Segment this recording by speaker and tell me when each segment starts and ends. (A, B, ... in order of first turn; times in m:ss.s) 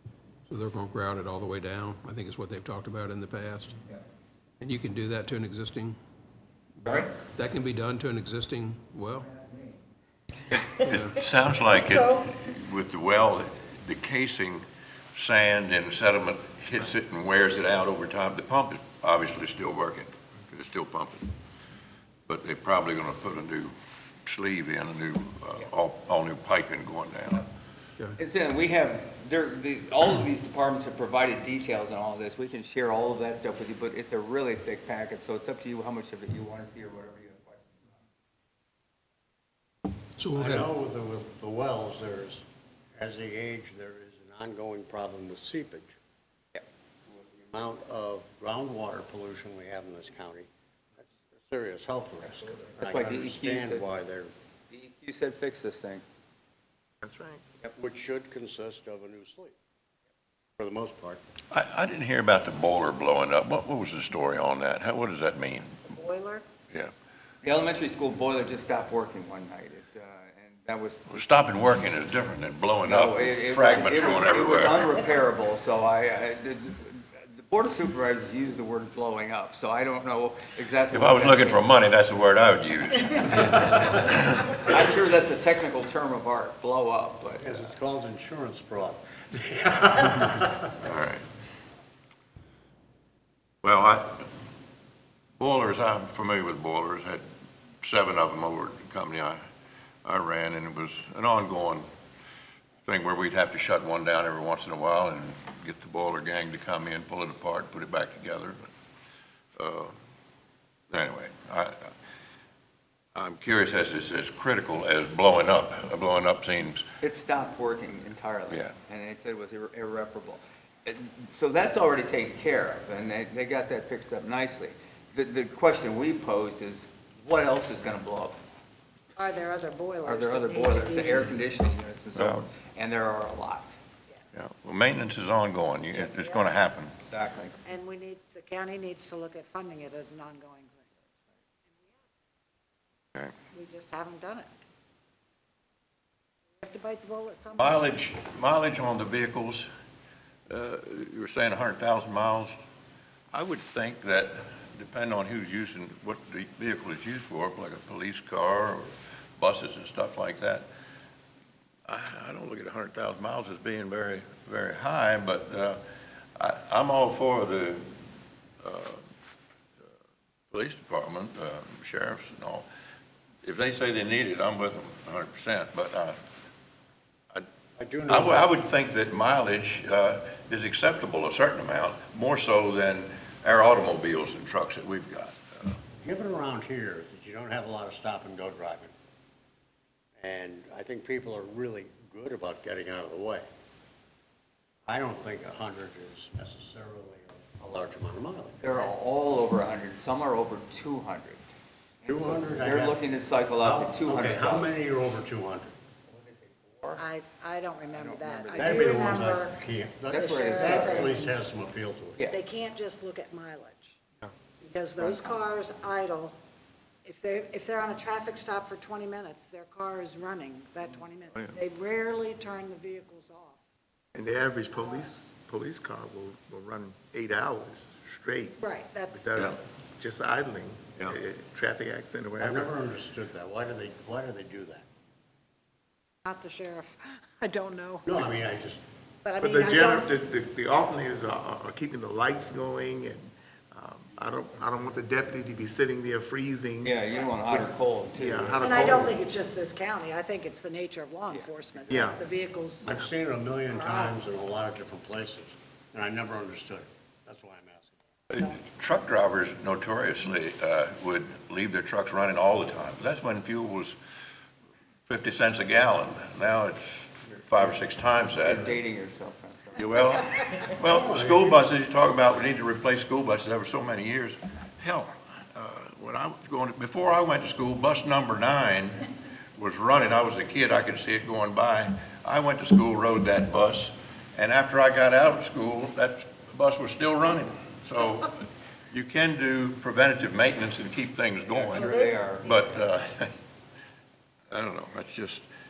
0:00.5-0:03.8 A
0:04.6-0:06.0 A
0:06.8-0:09.4 A
0:06.8-0:07.1 B
0:10.7-0:21.3 C
0:22.3-0:23.7 C
0:24.2-0:27.4 C
0:28.2-0:37.8 B
0:40.2-0:40.7 A
0:40.3-0:42.4 D
0:43.0-0:46.0 D
0:46.5-0:47.2 B
0:47.5-0:54.3 D
0:52.8-0:53.8 B
0:54.7-0:56.0 B
0:57.0-0:57.4 E
0:57.8-0:59.6 D
1:00.6-1:01.2 D
1:01.5-1:05.8 C
1:05.8-1:06.4 F
1:07.4-1:11.3 B
1:11.1-1:14.8 C
1:12.8-1:21.6 B
1:20.9-1:24.6 C
1:23.3-1:27.7 B
1:27.4-1:30.8 D
1:30.8-1:31.2 C
1:33.6-1:34.2 C
1:35.4-1:37.2 C
1:37.8-1:39.4 C
1:40.0-1:41.9 C
1:42.8-1:48.6 C
1:49.6-1:49.9 C
1:50.9-1:51.9 C
1:53.1-1:56.8 C
1:57.0-2:08.4 B
2:09.2-2:11.3 F
2:10.0-2:13.7 B
2:12.1-2:12.5 C
2:14.3-2:16.9 C
2:16.0-2:16.4 F
2:17.0-2:17.6 B
2:17.6-2:21.1 F
2:21.7-2:22.1 F
2:23.5-2:24.5 F
2:26.6-2:27.9 F
2:27.6-2:29.7 C
2:30.5-2:32.6 C
2:33.3-2:40.7 C
2:41.9-2:45.8 C
2:46.4-2:47.9 C
2:48.6-2:49.0 C
2:50.5-2:52.7 C
2:53.4-2:56.2 C
2:57.8-2:58.5 D
2:58.1-3:05.8 C
3:06.0-3:08.9 D
3:10.2-3:13.4 D
3:14.8-3:18.7 D
3:18.6-3:21.4 B
3:22.0-3:24.8 B
3:22.0-3:23.0 D
3:23.6-3:25.7 D
3:26.1-3:27.0 B
3:27.0-3:29.6 F
3:27.9-3:29.1 B
3:28.6-3:32.3 D
3:30.1-3:31.1 B
3:30.1-3:31.3 F
3:32.3-3:34.0 F
3:34.6-3:36.4 F
3:37.0-3:43.6 F
3:44.1-3:52.7 E
3:48.6-3:49.4 F
3:52.4-3:54.8 D
3:56.2-3:58.2 F
3:58.0-3:58.8 D
3:59.2-4:00.1 F
3:59.4-4:07.0 E
4:06.8-4:08.9 B
4:07.5-4:09.1 E
4:08.6-4:13.0 F
4:11.3-4:11.9 B
4:11.9-4:12.2 E
4:12.8-4:18.0 D
4:13.7-4:14.2 F
4:18.3-4:24.0 C
4:25.1-4:28.8 C
4:28.4-4:29.9 B
4:29.8-4:48.4 C
4:30.9-4:31.6 D
4:48.9-4:53.3 C
4:51.5-4:52.6 B
4:51.8-4:52.2 F
4:54.5-4:55.4 C